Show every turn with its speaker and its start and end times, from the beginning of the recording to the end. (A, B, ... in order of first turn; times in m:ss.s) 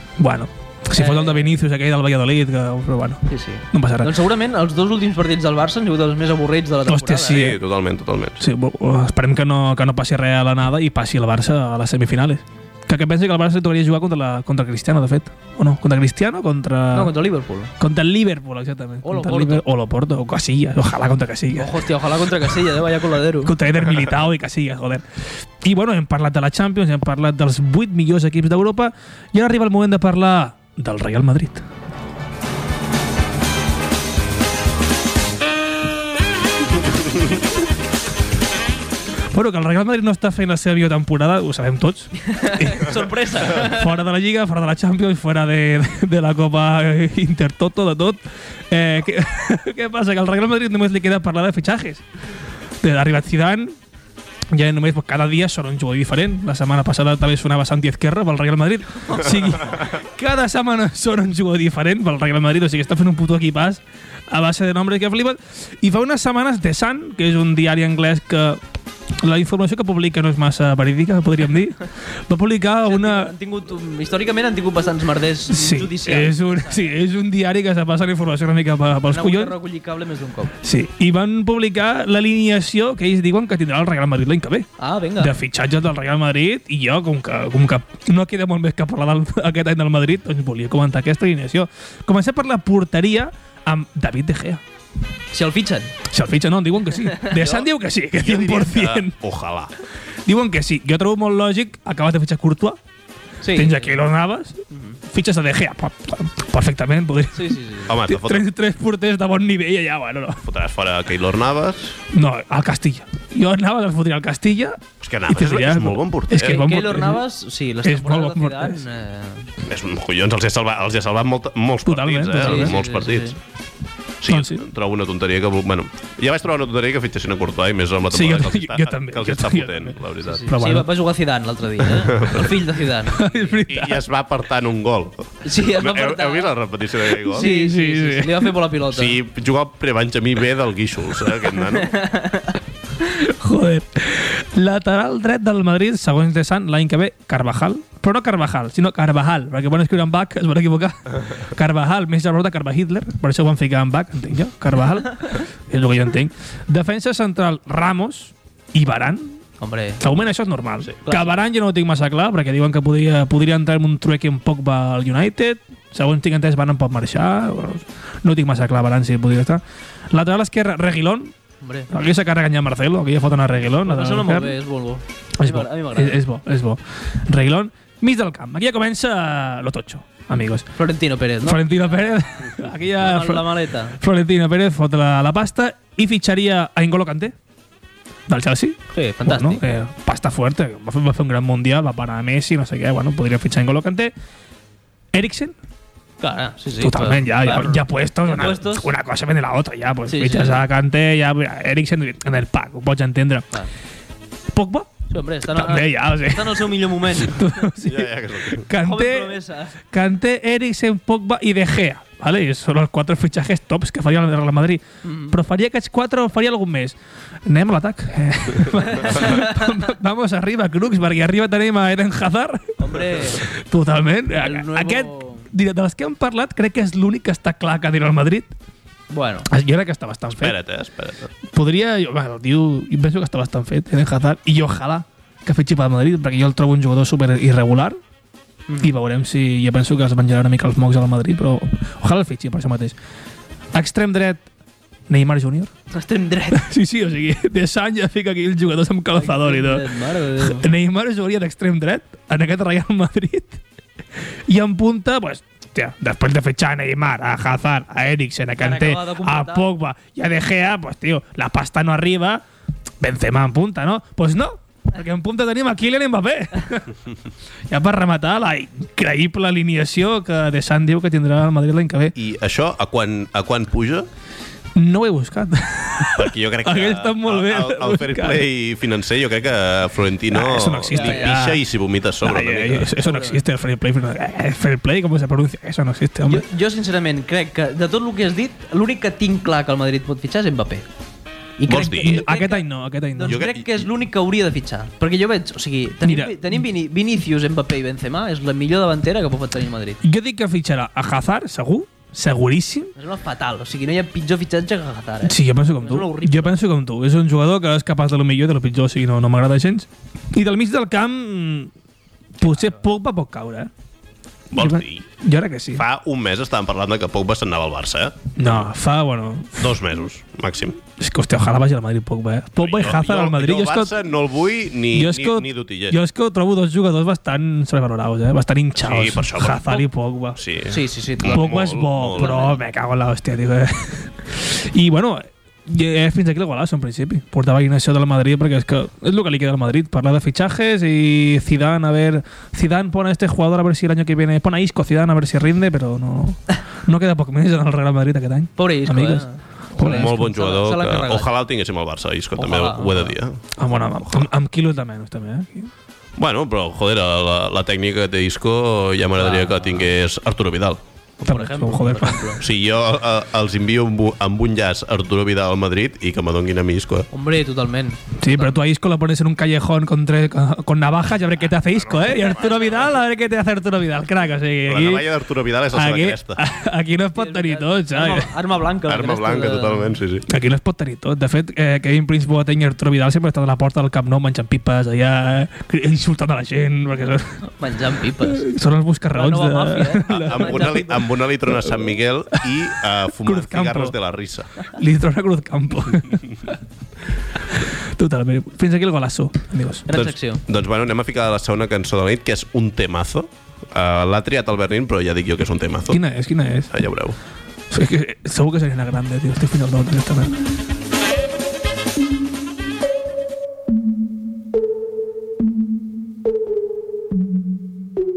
0:00.2-0:04.1 A
0:00.9-0:01.6 B
0:03.3-0:07.4 B
0:06.9-0:07.6 A
0:07.3-0:08.4 C
0:08.4-0:17.1 A
0:16.9-0:17.7 B
0:17.8-0:21.8 A
0:19.0-0:19.6 B
0:21.6-0:23.5 B
0:23.4-0:31.6 A
0:39.3-0:52.0 A
0:42.2-0:43.9 B
0:52.8-0:53.7 A
0:54.5-1:08.6 A
1:09.2-1:13.3 A
1:12.8-1:16.9 B
1:15.5-1:19.5 A
1:19.1-1:20.5 B
1:20.6-1:34.6 A
1:24.8-1:25.3 B
1:35.3-1:35.9 B
1:36.1-1:39.2 A
1:37.2-1:37.6 B
1:38.2-1:39.7 C
1:40.2-1:42.8 A
1:43.4-1:44.0 B
1:43.5-1:50.4 A
1:44.7-1:45.0 B
1:47.3-1:47.9 B
1:47.9-1:48.5 C
1:50.4-1:51.9 C
1:52.1-1:57.2 A
1:55.0-1:56.6 C
1:56.3-1:59.5 B
1:57.8-1:58.8 A
1:59.6-2:03.4 C
2:01.8-2:02.7 A
2:02.4-2:03.4 B
2:04.2-2:10.5 C
2:04.3-2:04.6 A
2:08.1-2:09.9 A
2:10.2-2:13.5 B
2:10.5-2:10.9 A
2:12.0-2:12.5 C
2:13.2-2:14.0 A
2:13.7-2:17.5 C
2:15.4-2:16.6 B
2:17.2-2:18.5 A
2:17.3-2:19.2 B
2:18.9-2:21.9 C
2:21.7-2:22.6 B
2:23.1-2:39.4 A
2:39.6-2:40.0 B
2:40.0-2:51.3 A
2:41.0-2:41.4 B
2:51.6-2:51.9 B
2:51.9-2:54.5 A
2:53.8-2:56.2 B
2:55.4-3:00.7 A
3:00.8-3:01.6 B
3:01.4-3:07.3 A
3:03.0-3:04.0 B
3:08.3-3:14.1 A
3:08.9-3:09.6 B
3:15.1-3:15.5 A
3:16.2-3:18.9 B
3:16.8-3:23.5 A
3:20.1-3:20.6 B
3:24.5-3:24.9 A
3:25.1-3:27.6 B
3:25.5-3:29.4 A
3:27.8-3:28.7 C
3:28.8-3:29.7 B
3:29.9-3:36.9 A
3:35.0-3:35.4 B
3:37.4-3:48.5 A
3:38.8-3:39.6 B
3:42.8-3:43.4 B
3:44.4-3:45.5 B
3:49.1-3:49.5 B
3:49.5-3:50.5 A
3:50.3-3:51.3 C
3:51.5-3:58.0 A
3:58.8-4:02.9 A
4:03.7-4:04.4 A
4:05.1-4:05.7 A
4:05.9-4:06.6 B
4:06.5-4:09.9 A
4:09.1-4:10.7 B
4:10.4-4:13.6 A
4:14.5-4:22.4 A
4:18.6-4:19.6 B
4:23.0-4:27.0 A
4:27.7-4:32.1 A
4:32.1-4:34.1 C
4:34.8-4:38.4 A
4:36.1-4:42.9 C
4:40.3-4:41.6 A
4:40.9-4:41.4 B
4:42.2-4:46.4 A
4:43.0-4:43.4 B
4:46.3-4:50.8 B
4:51.6-5:00.0 B
4:51.7-4:52.3 C
4:52.0-4:53.4 A
4:53.2-4:53.9 C
4:56.0-4:56.6 A
5:00.0-5:02.9 A
5:03.0-5:06.6 B
5:05.2-5:11.7 A
5:12.4-5:13.7 A
5:12.4-5:12.8 B
5:14.5-5:15.1 C
5:14.6-5:15.8 A
5:15.7-5:18.7 C
5:18.4-5:19.7 A
5:19.6-5:20.8 C
5:21.0-5:23.9 A
5:22.6-5:26.0 C
5:24.9-5:30.4 A
5:28.8-5:29.8 C
5:30.4-5:32.4 C
5:30.7-5:31.5 B
5:31.3-5:50.2 A
5:32.2-5:32.6 B
5:48.6-5:51.3 B
5:49.8-5:54.3 C
5:52.4-5:53.2 B
5:53.6-5:55.7 A
5:56.2-6:00.8 C
5:59.2-5:59.9 B
6:01.2-6:02.4 B
6:01.2-6:02.3 A
6:02.4-6:07.1 C
6:07.1-6:08.5 B
6:08.2-6:15.1 A
6:11.8-6:12.6 C
6:14.7-6:16.4 C
6:15.7-6:18.3 A
6:17.2-6:20.0 B
6:18.9-6:20.2 C
6:20.3-6:27.4 A
6:27.5-6:28.4 B
6:28.2-6:30.8 A
6:29.1-6:31.0 B
6:30.1-6:34.5 C
6:33.2-6:33.9 A
6:34.7-6:36.5 A
6:37.5-6:40.0 A
6:39.9-6:40.4 B
6:39.9-6:46.0 C
6:45.9-6:46.7 A
6:46.7-6:47.2 C
6:47.7-6:50.4 A